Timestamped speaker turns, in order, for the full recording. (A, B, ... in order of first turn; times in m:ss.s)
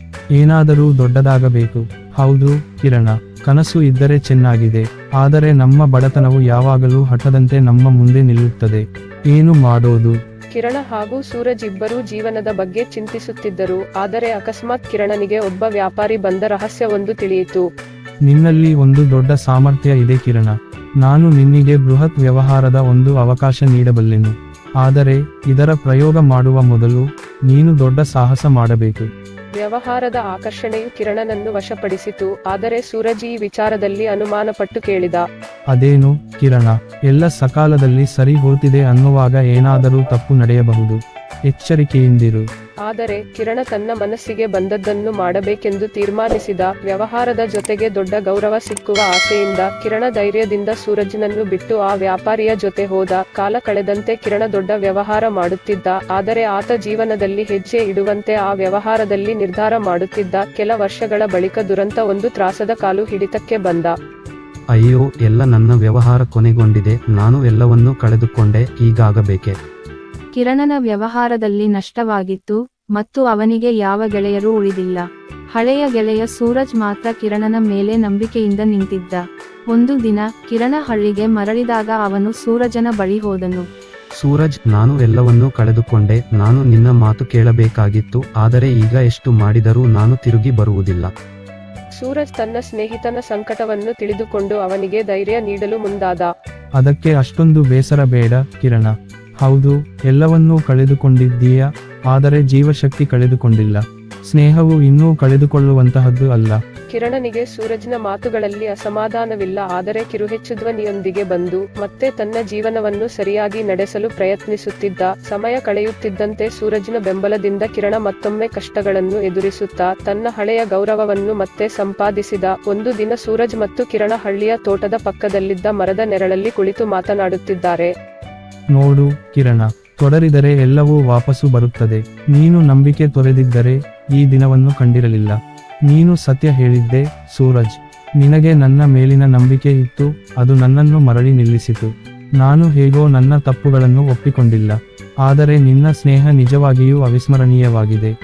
0:00.4-0:10.2 A
0:10.5-0:17.6 B
0:18.2-0:29.1 A
0:29.6-0:35.2 B
0:35.7-0:42.4 A
0:42.9-1:03.9 B
1:04.7-1:09.6 C
1:10.4-1:15.0 D
1:15.6-1:23.6 D
1:24.2-1:31.1 C
1:32.0-1:36.3 B
1:36.8-1:46.6 A
1:46.9-2:07.9 B
2:08.7-2:28.1 A